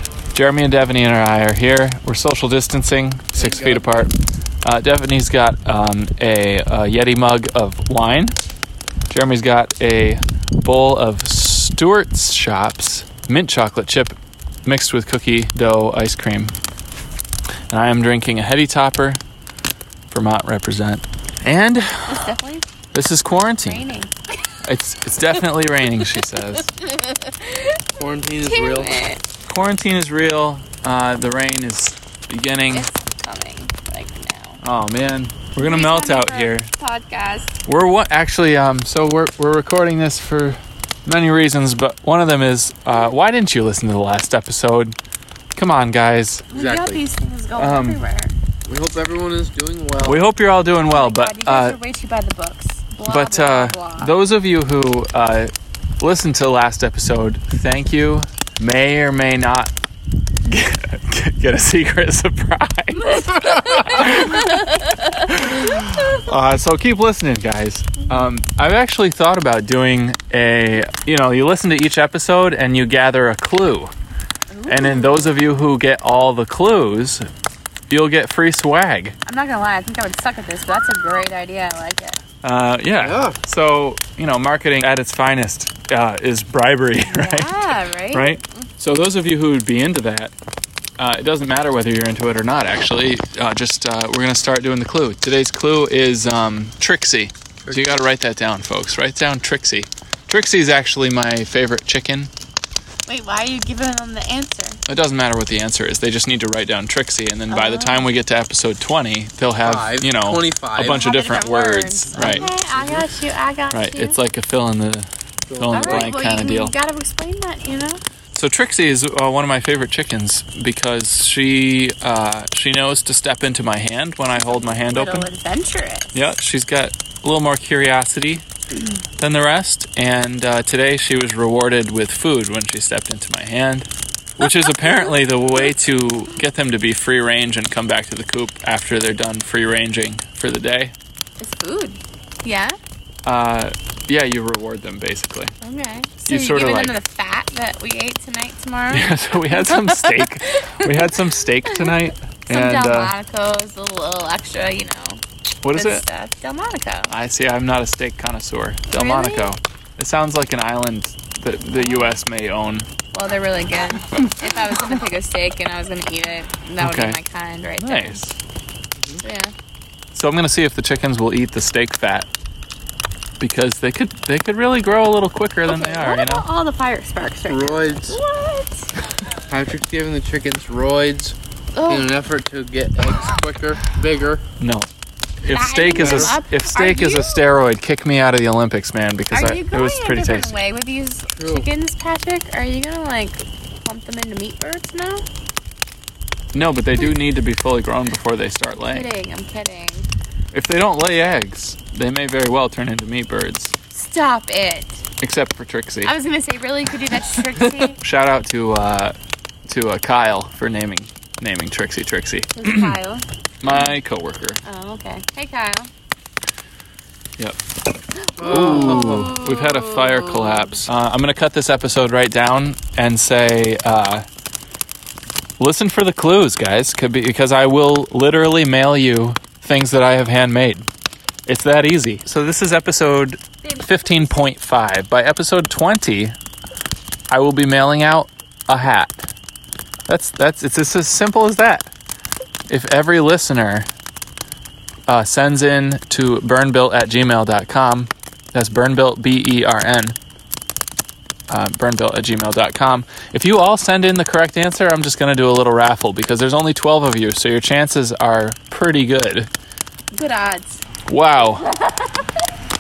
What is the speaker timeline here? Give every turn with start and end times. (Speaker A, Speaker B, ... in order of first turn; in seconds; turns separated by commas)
Speaker A: 0.3-8.3, Speaker B: 3.4-3.9, Speaker A: 9.1-16.6, Speaker A: 17.7-19.2, Speaker A: 20.1-22.3, Speaker C: 22.1-22.6, Speaker A: 22.9-23.9, Speaker C: 23.3-24.1, Speaker A: 24.6-26.7, Speaker C: 27.0-27.7, Speaker B: 28.0-29.0, Speaker C: 28.4-29.2, Speaker A: 29.4-32.9, Speaker C: 32.7-34.6, Speaker A: 34.6-36.7, Speaker C: 35.6-37.5, Speaker A: 37.7-45.0, Speaker A: 45.5-46.5, Speaker C: 46.5-48.3, Speaker B: 46.5-47.0, Speaker A: 47.5-48.0, Speaker B: 48.7-50.3, Speaker A: 50.0-51.8, Speaker C: 50.8-54.1, Speaker A: 53.0-59.7, Speaker A: 60.5-73.9, Speaker C: 63.4-64.9, Speaker C: 74.5-75.4, Speaker A: 74.7-77.3, Speaker A: 77.9-79.2, Speaker C: 79.3-82.2, Speaker A: 82.4-90.3, Speaker B: 83.0-83.4, Speaker C: 87.1-88.7, Speaker A: 91.0-102.3, Speaker B: 97.7-98.1, Speaker C: 103.1-104.8, Speaker A: 104.9-112.5, Speaker C: 107.5-108.1, Speaker B: 109.6-111.1, Speaker C: 110.8-114.2, Speaker B: 112.1-113.1, Speaker A: 113.7-116.7, Speaker B: 115.5-116.2, Speaker C: 115.7-118.0, Speaker A: 118.3-125.3, Speaker C: 124.5-126.2, Speaker A: 126.1-128.5, Speaker A: 129.2-140.9, Speaker C: 134.8-135.1, Speaker C: 141.4-142.8, Speaker A: 143.2-145.5, Speaker C: 145.6-155.2, Speaker A: 146.2-147.0, Speaker A: 148.9-153.2, Speaker A: 155.6-156.1, Speaker C: 155.7-157.1, Speaker A: 157.1-162.9, Speaker C: 158.9-159.5, Speaker C: 161.7-162.2, Speaker C: 163.1-168.2, Speaker A: 166.8-167.2, Speaker A: 167.8-168.3, Speaker C: 169.2-169.5, Speaker A: 170.1-172.3, Speaker A: 173.4-176.5, Speaker C: 175.7-178.9, Speaker B: 177.5-178.2, Speaker B: 179.5-184.4, Speaker C: 181.7-182.1, Speaker A: 184.6-184.9, Speaker C: 185.4-187.4, Speaker A: 185.4-190.6, Speaker B: 185.9-186.4, Speaker C: 189.3-195.3, Speaker B: 191.4-191.7, Speaker A: 196.5-199.1, Speaker C: 196.9-197.2, Speaker C: 198.9-200.1, Speaker A: 200.5-203.8, Speaker C: 203.9-205.0, Speaker A: 205.2-206.1, Speaker C: 206.0-208.0, Speaker A: 207.9-209.2, Speaker A: 209.7-213.0, Speaker C: 212.6-213.8, Speaker A: 213.6-214.6, Speaker C: 214.6-215.9, Speaker C: 218.4-220.7, Speaker B: 218.4-219.4, Speaker A: 218.4-224.3, Speaker A: 225.6-230.9, Speaker A: 231.5-236.3, Speaker C: 233.6-234.4, Speaker A: 237.3-239.3, Speaker A: 240.1-241.9, Speaker A: 242.7-243.9, Speaker A: 245.1-250.2, Speaker A: 251.5-259.5, Speaker C: 260.1-260.8, Speaker A: 261.1-261.7